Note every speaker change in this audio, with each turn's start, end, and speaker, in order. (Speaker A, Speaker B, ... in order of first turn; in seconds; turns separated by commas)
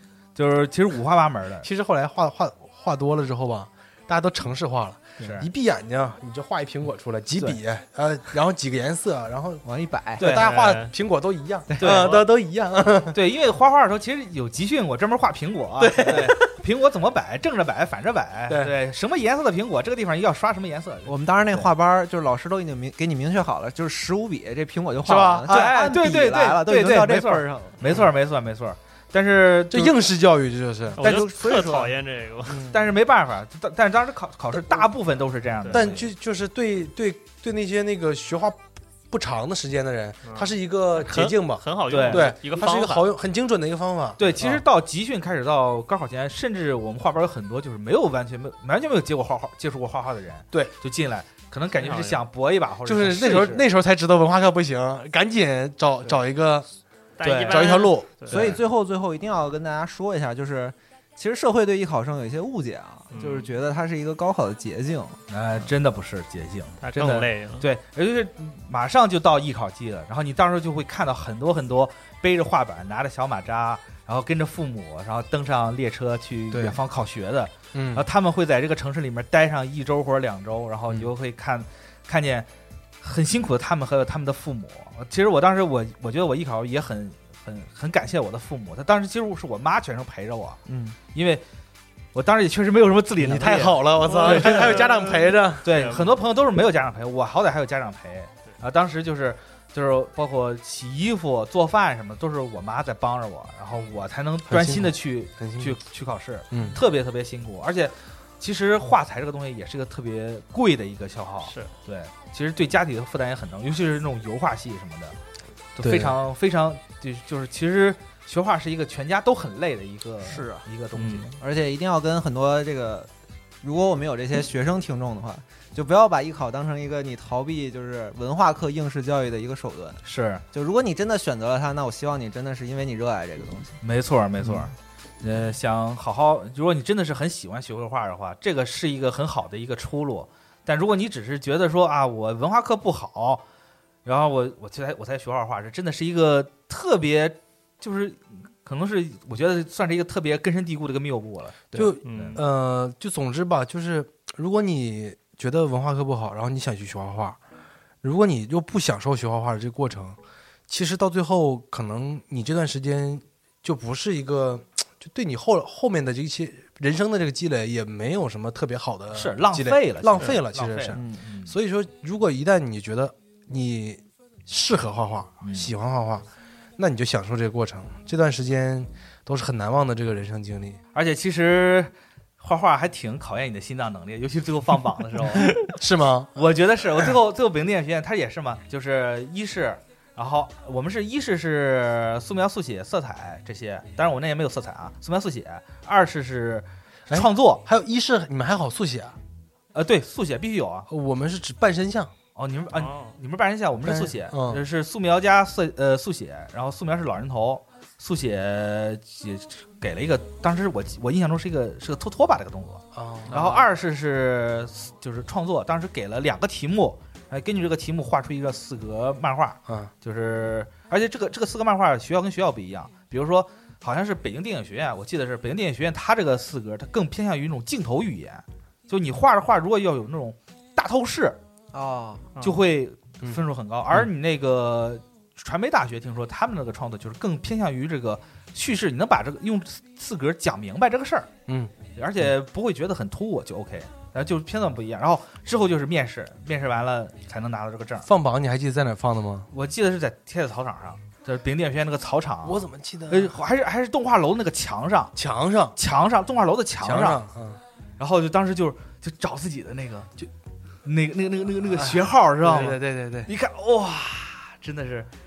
Speaker A: 0.3-1.7, Speaker B: 1.6-9.6, Speaker C: 9.6-10.2, Speaker A: 10.2-10.6, Speaker B: 10.2-13.2, Speaker D: 10.2-10.9, Speaker C: 11.7-11.9, Speaker A: 11.8-12.3, Speaker A: 13.1-21.7, Speaker B: 15.8-16.4, Speaker B: 18.5-18.7, Speaker C: 21.1-27.8, Speaker B: 25.0-26.0, Speaker A: 25.5-30.0, Speaker B: 29.7-31.2, Speaker D: 31.0-32.6, Speaker A: 31.0-31.9, Speaker C: 31.1-31.9, Speaker A: 32.7-36.1, Speaker D: 35.6-35.9, Speaker B: 35.7-44.2, Speaker D: 40.2-43.0, Speaker A: 41.9-43.0, Speaker A: 44.2-53.7, Speaker D: 51.8-52.2, Speaker B: 52.8-56.7, Speaker D: 57.2-58.5, Speaker A: 57.2-58.6, Speaker B: 57.5-58.1, Speaker C: 58.3-65.2, Speaker D: 63.1-63.5, Speaker A: 65.3-82.5, Speaker D: 66.8-67.6, Speaker B: 76.5-76.8, Speaker B: 77.7-78.0, Speaker A: 83.0-90.6, Speaker C: 90.7-91.0, Speaker A: 91.1-91.4, Speaker A: 92.1-94.8, Speaker B: 93.2-95.9, Speaker D: 94.3-95.0, Speaker A: 95.6-115.2, Speaker D: 95.7-96.1, Speaker B: 104.5-105.8, Speaker B: 106.5-106.8, Speaker D: 111.4-111.7, Speaker A: 115.8-121.4, Speaker B: 115.8-116.2, Speaker C: 120.2-120.6, Speaker D: 121.0-121.3, Speaker C: 121.4-123.1, Speaker C: 123.6-133.8, Speaker A: 130.0-130.4, Speaker A: 133.8-143.4, Speaker A: 144.0-152.4, Speaker B: 151.7-157.4, Speaker D: 152.0-152.4, Speaker B: 158.0-176.2, Speaker A: 169.1-171.5, Speaker C: 170.9-171.2, Speaker A: 175.4-175.7, Speaker B: 176.8-180.8, Speaker A: 180.9-185.7, Speaker B: 185.7-186.4, Speaker A: 186.3-197.6, Speaker B: 197.1-199.2, Speaker A: 199.7-200.9, Speaker B: 200.9-202.1, Speaker A: 202.3-231.4, Speaker D: 202.7-203.1, Speaker B: 203.8-204.6, Speaker B: 212.9-213.6, Speaker C: 231.7-232.3, Speaker A: 232.4-241.3, Speaker B: 241.5-241.7, Speaker A: 241.9-248.1, Speaker B: 248.0-249.5, Speaker A: 249.5-255.1, Speaker B: 252.4-253.3, Speaker B: 255.1-255.8, Speaker A: 255.8-257.2, Speaker B: 256.8-257.6, Speaker A: 258.0-260.3, Speaker A: 260.8-265.1, Speaker B: 261.6-263.3